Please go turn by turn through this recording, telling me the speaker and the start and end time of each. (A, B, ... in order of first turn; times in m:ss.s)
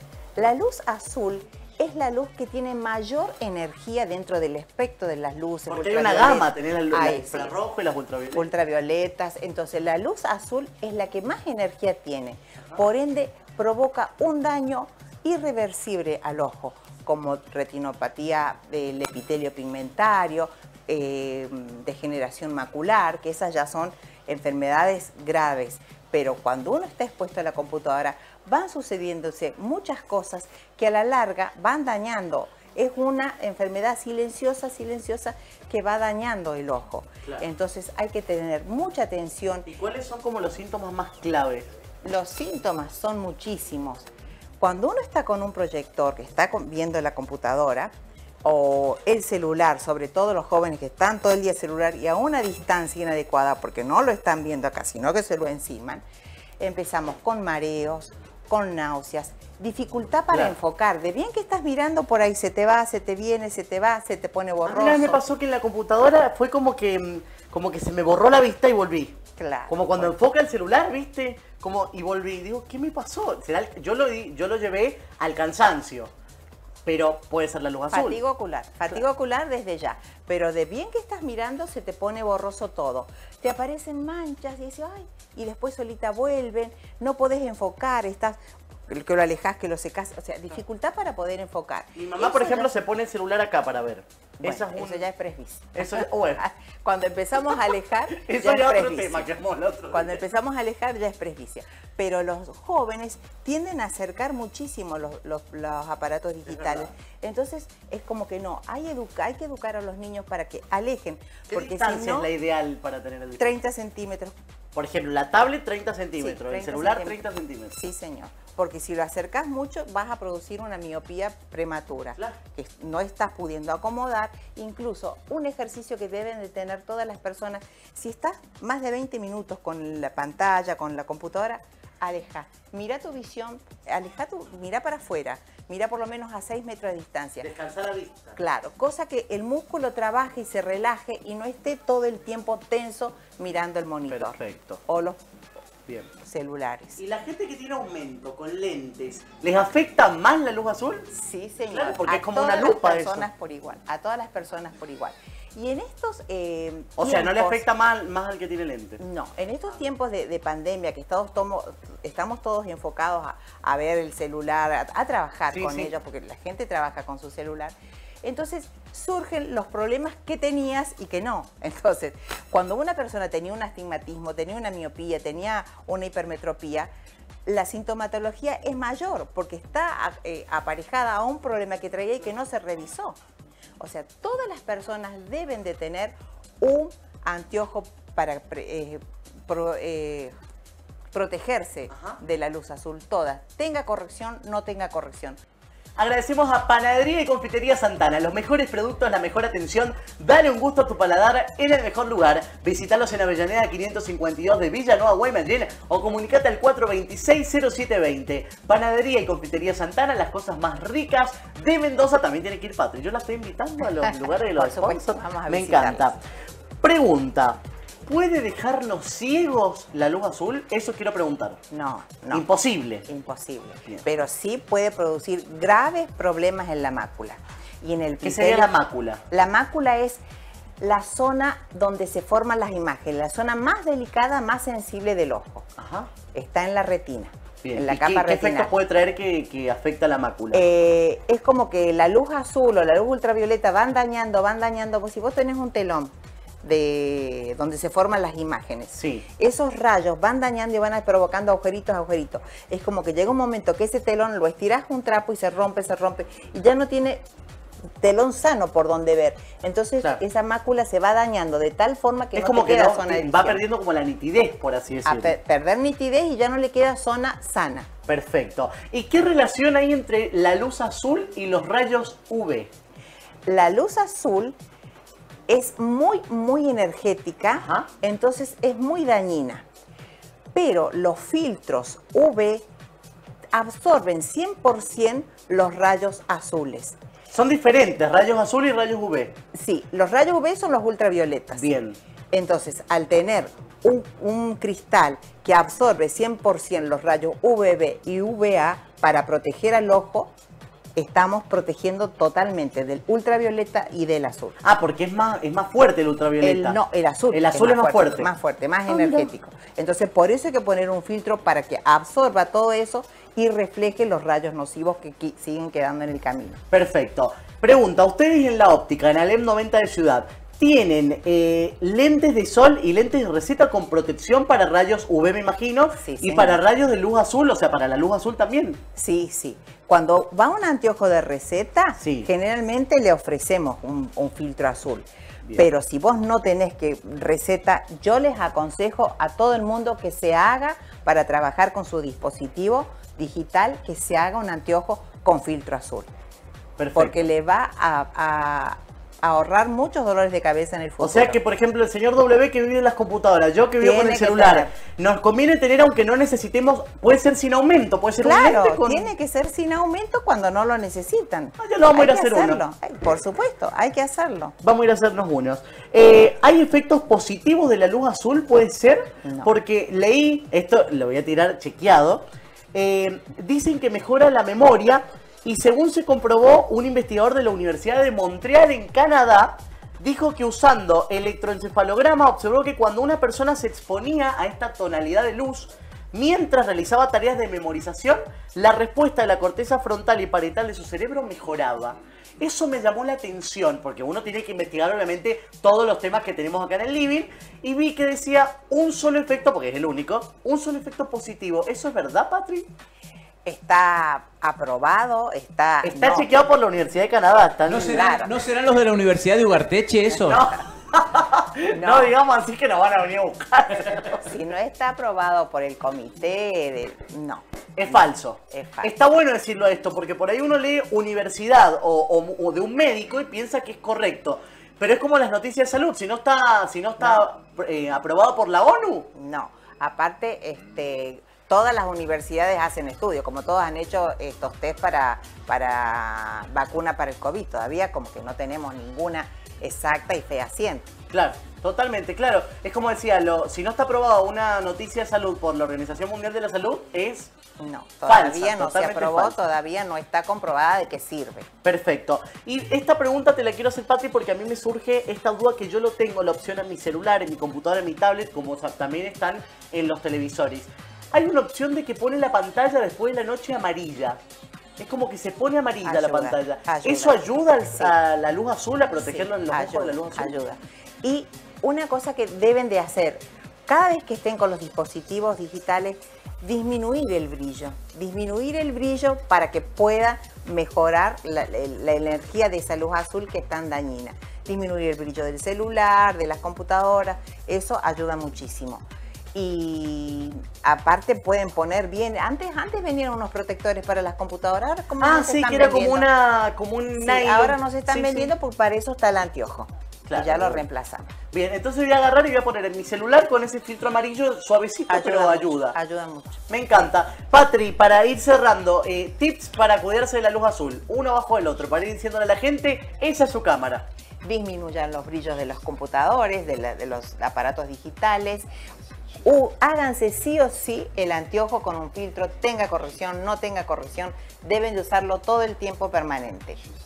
0:00.4-0:07.6 A
0:05.7-0:08.5 B
0:08.3-0:39.7 A
0:39.6-0:41.7 B
0:42.0-0:44.1 A
0:44.6-0:47.9 A
0:48.4-0:56.0 A
0:56.6-1:05.2 A
1:04.6-1:09.2 B
1:09.4-1:10.2 A
1:09.7-1:16.1 B
1:16.8-1:18.2 B
1:17.9-1:32.7 A
1:32.0-1:35.0 B
1:34.4-1:39.3 A
1:35.8-1:36.4 B
1:38.1-1:40.2 B
1:39.9-1:52.3 A
1:46.5-1:46.9 B
1:51.5-1:53.6 B
1:53.4-1:54.3 A
1:54.7-1:57.8 B
1:56.2-2:17.5 A
2:17.4-2:18.4 B
2:18.4-2:25.2 A
2:24.1-2:24.8 B
2:26.2-2:27.0 A
2:27.0-2:31.1 B
2:31.1-2:37.6 A
2:31.7-2:33.3 B
2:37.0-2:39.0 B
2:39.0-2:56.9 A
2:45.5-2:45.9 B
2:57.4-3:03.2 A
3:03.8-3:10.3 A
3:11.1-3:15.4 A
3:11.9-3:12.2 B
3:16.0-3:36.2 B
3:34.0-3:36.2 A
3:36.8-3:41.6 B
3:41.7-3:42.4 A
3:42.3-3:43.1 B
3:43.1-3:48.7 A
3:48.2-3:49.2 B
3:49.3-3:50.2 A
3:50.8-3:55.6 A
3:55.8-3:56.1 B
3:56.3-3:58.7 A
3:57.6-4:00.6 B
4:00.5-4:06.1 A
4:06.6-4:17.2 A
4:09.0-4:09.2 B
4:18.0-4:23.6 A
4:22.3-4:25.3 B
4:25.0-4:27.9 A
4:28.1-4:32.7 B
4:33.4-4:34.5 A
4:35.5-4:39.6 A
4:37.5-4:37.9 B
4:40.5-4:42.6 A
4:43.5-4:47.0 A
4:47.3-4:49.3 B
4:49.5-4:51.7 A
4:51.5-4:52.0 B
4:52.3-5:00.3 A
5:01.0-5:04.6 A
5:04.6-5:06.8 B
5:06.4-5:16.6 A
5:07.3-5:08.3 B
5:08.9-5:09.3 B
5:16.7-5:28.8 B
5:26.0-5:26.6 A
5:29.0-5:46.1 A
5:32.0-5:32.3 B
5:46.8-5:47.2 B
5:46.9-5:51.4 A
5:51.0-5:59.1 B
5:53.8-5:54.8 A
5:58.2-6:04.5 A
6:01.6-6:02.6 B
6:04.6-6:42.7 B
6:09.2-6:09.5 A
6:43.4-6:46.3 A
6:45.8-6:48.0 B
6:47.6-6:50.5 C
6:47.8-6:48.4 A
6:50.1-6:50.6 A
6:50.2-6:54.3 B
6:51.7-6:52.1 A
6:54.2-6:58.9 A
6:57.8-7:09.1 B
7:07.0-7:07.2 A
7:09.1-7:20.9 A
7:21.1-7:27.3 B
7:27.6-7:31.5 A
7:28.1-7:29.4 B
7:31.6-7:44.2 B
7:44.8-7:50.3 B
7:45.8-7:47.9 A
7:49.0-8:16.1 A
8:15.0-8:18.3 B
8:17.0-8:21.1 A
8:20.1-8:20.6 B
8:21.3-8:25.7 B
8:24.9-8:26.4 A
8:26.5-8:33.8 B
8:34.2-8:38.4 A
8:39.2-8:46.6 A